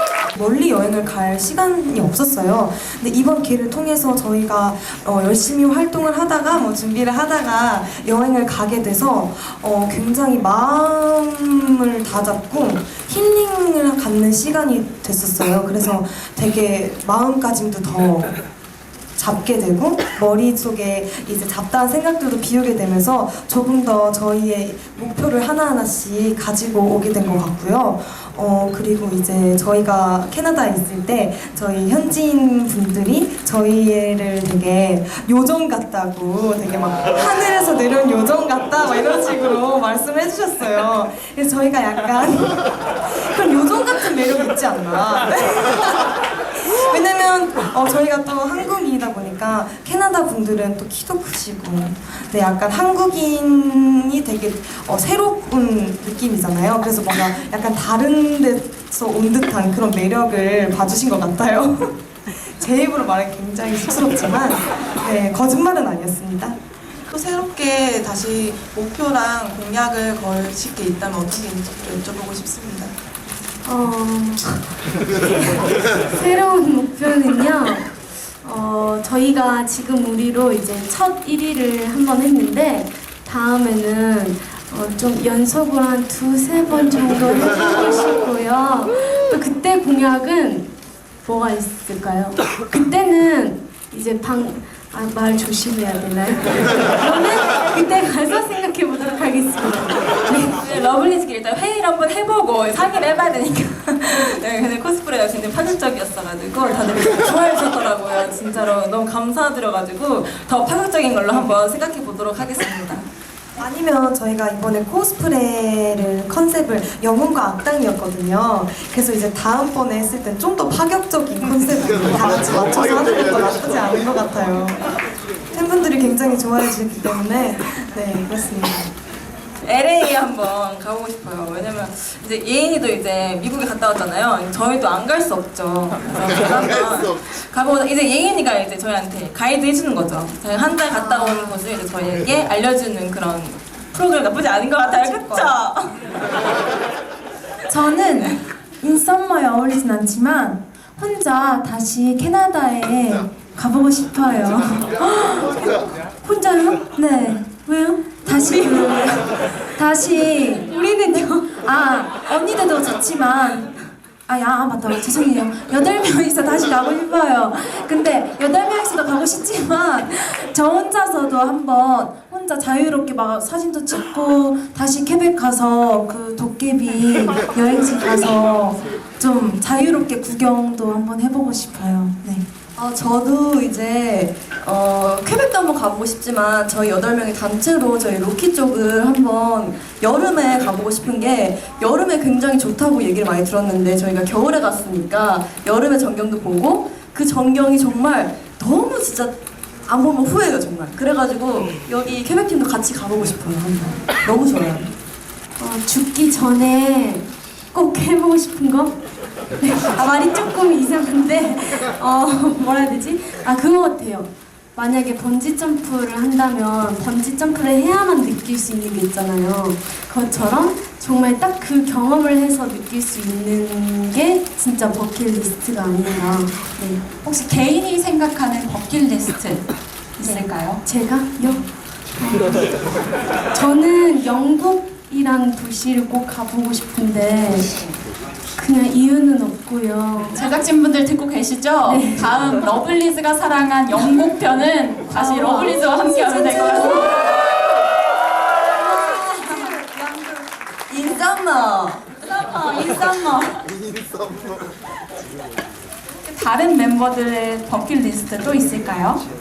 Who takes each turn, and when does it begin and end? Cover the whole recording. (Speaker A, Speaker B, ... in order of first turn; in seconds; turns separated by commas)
Speaker A: 0.3-18.3, Speaker A: 19.1-66.5, Speaker B: 67.1-72.9, Speaker C: 73.7-74.7, Speaker C: 75.4-90.7, Speaker C: 91.2-100.6, Speaker D: 100.6-113.1, Speaker A: 113.6-124.9, Speaker A: 125.5-128.9, Speaker D: 129.6-146.1, Speaker A: 144.8-145.6, Speaker E: 147.7-155.2, Speaker C: 156.2-156.8, Speaker E: 156.8-160.7, Speaker C: 160.6-161.6, Speaker E: 161.6-163.7, Speaker E: 164.3-182.4, Speaker F: 182.8-204.9, Speaker C: 205.6-208.9, Speaker C: 209.6-227.0, Speaker G: 227.2-229.7, Speaker G: 230.2-230.8, Speaker C: 230.2-231.7, Speaker C: 232.2-232.6, Speaker C: 233.5-237.7, Speaker C: 238.6-240.4, Speaker G: 240.3-247.4, Speaker C: 241.8-242.4, Speaker C: 245.1-247.0, Speaker F: 246.3-247.5, Speaker F: 248.8-249.8, Speaker G: 249.4-249.7, Speaker F: 250.9-252.1, Speaker G: 252.3-253.7, Speaker G: 256.2-259.2